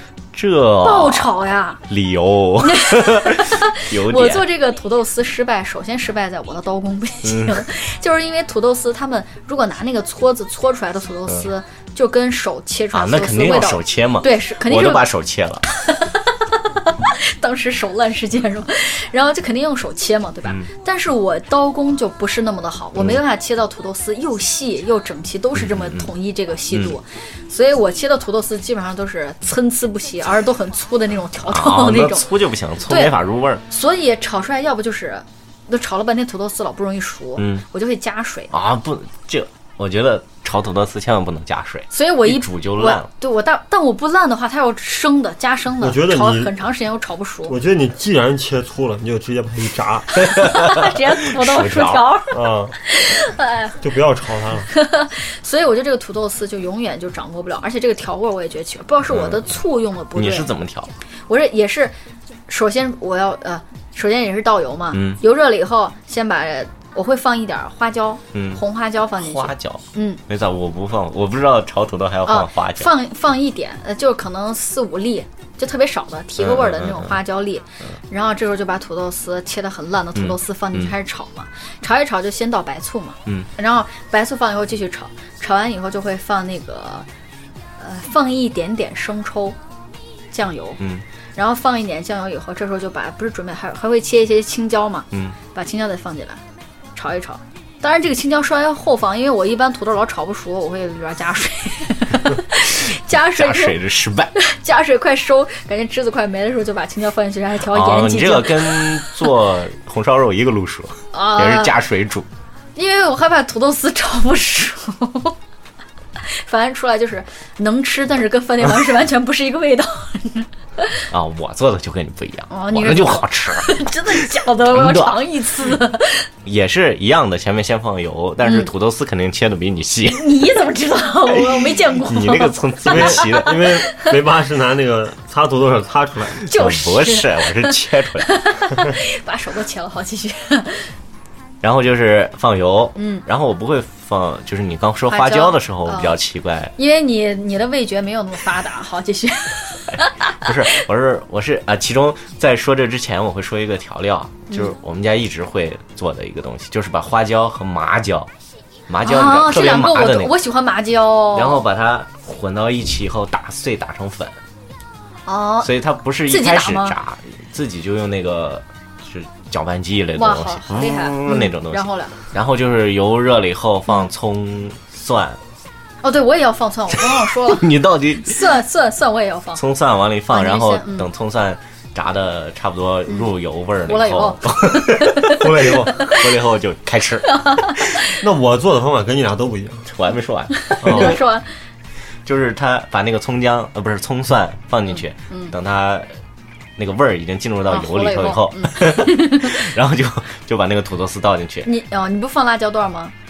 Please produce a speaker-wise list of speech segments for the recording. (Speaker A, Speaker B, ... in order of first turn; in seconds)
Speaker A: 0.3-1.3, 1.9-4.5, 7.2-7.6, 12.9-15.6, 25.6-26.1, 31.5-33.6, 37.4-37.6, 38.5-43.1, 50.2-52.2, 59.1-59.5, 60.1-60.9, 64.9-65.2, 68.3-68.6, 69.2-72.9, 76.4-77.2, 80.2-80.9, 102.9-104.3, 107.6-112.3, 121.1-124.2, 124.7-125.2, 126.5-130.5, 131.3-133.8, 136.5-138.3, 141.6-146.8, 150.4-158.3, 158.9-160.3, 161.3-164.4, 165.6-175.4, 177.0-178.5, 179.6-187.8, 189.9-191.2, 192.2-196.1, 196.8-201.7
Speaker B: 0.8-1.8, 2.6-15.1, 15.7-32.3, 32.9-38.5, 41.9-47.5, 50.2-53.8, 54.7-60.5, 61.3-62.0, 62.5-70.2, 72.2-87.1, 87.8-89.6, 90.3-90.8, 91.4-96.4, 97.0-103.8, 104.4-109.3, 111.1-111.8, 112.8-115.3, 116.2-121.0, 122.5-126.3, 128.4-128.7, 130.1-134.1, 136.4-140.9, 143.0-143.2, 145.1-146.2, 146.8-150.8, 159.0-161.6, 165.2-165.7, 166.2-167.0, 170.2-172.2, 176.0-179.6, 180.3-181.1, 183.9-186.3, 187.3-188.1, 190.6-191.5, 194.9-195.6, 197.7-199.6, 201.6-203.1
Speaker C: 45.8-46.5, 47.5-50.1, 52.3-52.8, 53.8-54.7, 132.9-136.5, 185.4-185.9, 188.2-189.9, 190.8-191.2